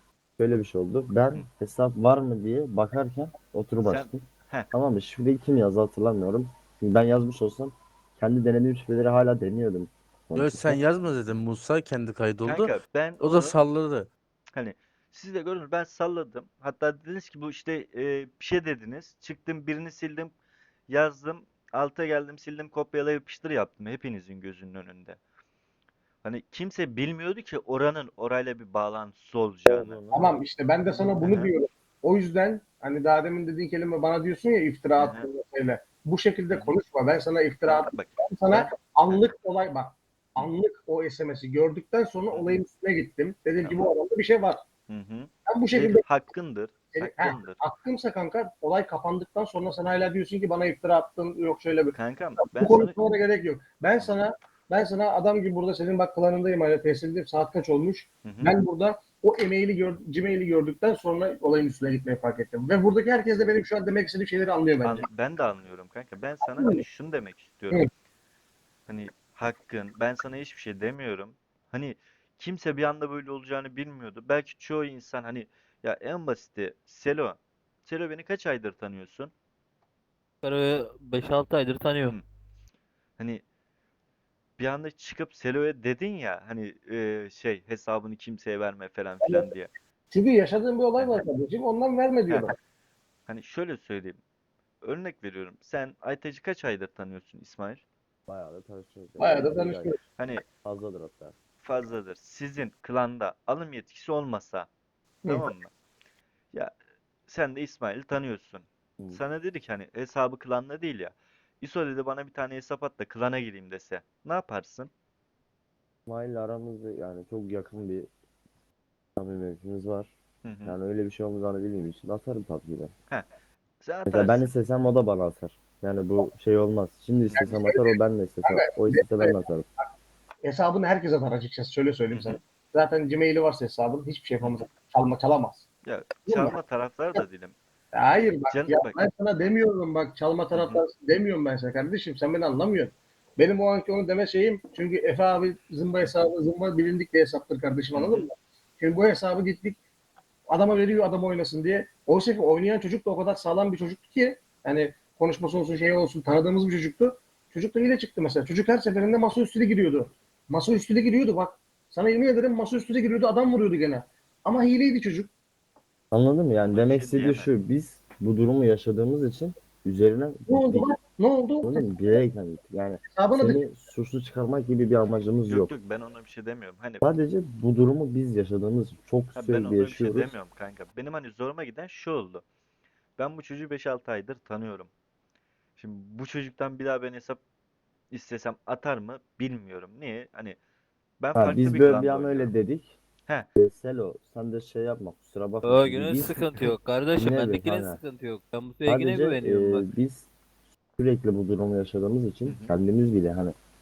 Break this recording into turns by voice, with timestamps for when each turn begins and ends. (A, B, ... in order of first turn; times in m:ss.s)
0:00.4-0:10.8 A
0:03.8-0:04.7 B
0:10.3-0:14.1 C
0:12.4-0:13.6 B
0:14.5-0:20.3 B
0:20.9-0:25.2 B
0:26.2-0:30.0 B
0:29.6-0:30.4 A
0:30.1-0:44.6 D
0:31.2-0:31.5 B
0:35.0-0:35.3 B
0:37.6-0:39.3 B
0:42.3-0:42.5 B
0:44.9-0:47.6 B
0:45.5-0:46.0 D
0:46.9-1:05.1 D
0:51.9-0:53.0 B
0:58.2-0:58.6 B
1:04.8-1:07.8 B
1:08.9-1:19.3 B
1:20.4-1:22.2 E
1:23.2-1:23.4 B
1:24.6-1:29.7 B
1:29.2-1:29.5 D
1:30.1-1:32.6 D
1:31.0-1:31.2 B
1:33.3-1:34.2 B
1:34.8-1:37.8 B
1:38.3-1:41.4 A
1:39.2-1:40.0 D
1:41.6-1:44.7 B
1:45.2-1:45.5 D
1:45.3-1:45.7 B
1:47.3-1:54.9 B
1:56.0-1:58.1 A
1:59.2-2:00.1 A
2:00.4-2:00.7 B
2:00.6-2:02.9 A
2:03.8-2:04.5 B
2:04.1-2:09.6 A
2:07.4-2:09.9 D
2:10.4-2:15.7 D
2:12.1-2:12.4 B
2:15.8-2:17.6 B
2:16.2-2:16.5 D
2:17.9-2:29.8 D
2:18.5-2:19.0 B
2:20.5-2:20.8 B
2:27.9-2:28.2 B
2:30.5-2:45.3 D
2:46.1-2:50.9 A
2:46.7-2:47.5 B
2:50.5-2:52.2 D
2:51.6-2:55.7 A
2:53.1-2:53.6 D
2:55.5-2:57.0 B
2:57.0-3:00.3 A
2:59.4-3:02.4 B
3:03.2-3:04.9 B
3:05.8-3:07.4 B
3:08.1-3:10.6 B
3:11.2-3:12.5 B
3:11.3-3:13.0 A
3:13.6-3:16.4 A
3:15.6-3:19.8 E
3:17.2-3:18.0 A
3:18.8-3:20.3 A
3:21.0-3:23.6 A
3:22.4-3:22.7 B